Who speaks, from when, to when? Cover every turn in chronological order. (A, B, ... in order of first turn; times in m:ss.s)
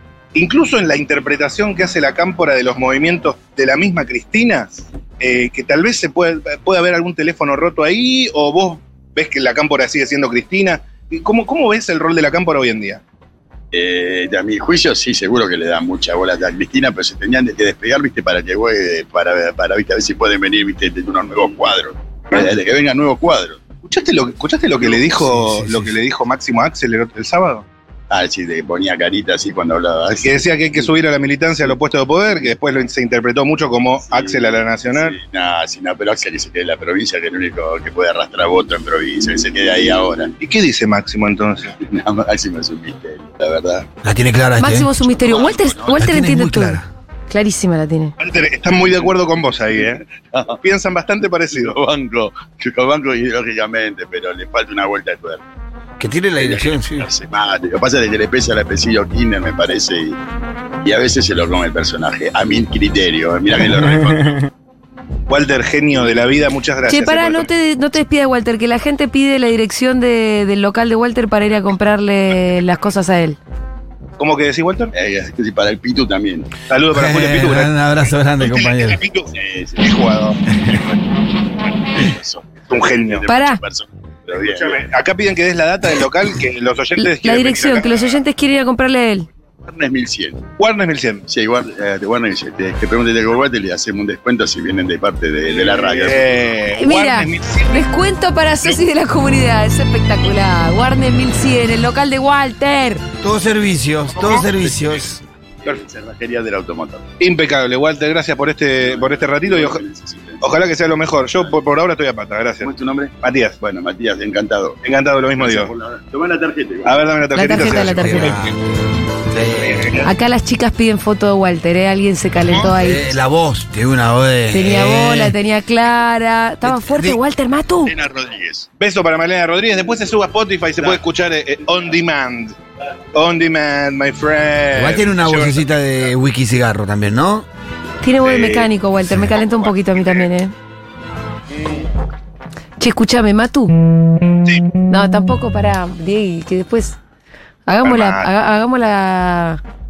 0:00.3-0:13.0 A
0:13.7-0:23.6 B
0:23.8-0:27.7 A
0:25.1-0:26.0 C
0:28.1-0:30.9 B
0:30.2-0:35.2 A
0:34.1-0:40.3 B
0:40.4-0:41.7 A
0:41.8-0:43.9 B
0:44.0-0:44.9 C
0:44.6-0:48.2 D
0:45.1-0:46.0 B
0:45.9-0:46.9 C
0:48.2-0:50.0 A
0:50.1-0:50.6 B
0:50.6-0:51.8 A
0:51.5-0:55.4 B
0:56.0-0:57.1 C
0:56.4-1:00.2 B
1:00.8-1:04.5 B
1:05.3-1:07.5 A
1:06.9-1:13.4 D
1:14.2-1:14.9 A
1:14.9-1:16.5 B
1:16.7-1:17.7 A
1:16.9-1:19.0 C
1:18.4-1:20.4 A
1:19.3-1:20.0 B
1:20.6-1:21.0 B
1:21.9-1:24.9 B
1:22.7-1:23.3 A
1:23.3-1:23.6 D
1:24.3-1:28.2 A
1:27.0-1:29.3 D
1:29.6-1:30.4 B
1:30.6-1:31.2 A
1:31.3-1:36.5 B
1:35.5-1:37.9 A
1:36.8-1:43.0 D
1:43.2-1:45.2 C
1:44.2-1:44.5 A
1:44.3-1:45.0 B
1:45.6-1:47.1 B
1:47.2-1:49.8 A
1:48.8-1:50.5 B
1:50.4-1:52.7 A
1:52.6-1:54.8 B
1:53.2-1:53.6 A
1:54.8-1:55.7 A
1:55.4-1:57.0 B
1:56.9-1:58.5 A
1:57.4-1:58.4 D
1:57.7-1:58.6 C
1:59.3-1:59.9 C
1:59.6-2:00.1 A
2:00.0-2:03.1 D
2:02.7-2:05.4 C
2:04.5-2:07.9 D
2:06.6-2:07.2 C
2:07.9-2:08.7 B
2:08.8-2:12.6 A
2:13.1-2:15.7 A
2:14.7-2:17.5 C
2:18.0-2:20.5 D
2:18.2-2:18.7 A
2:19.3-2:20.3 A
2:22.8-2:23.7 D
2:24.9-2:27.0 D
2:27.7-2:29.6 D
2:27.8-2:28.3 A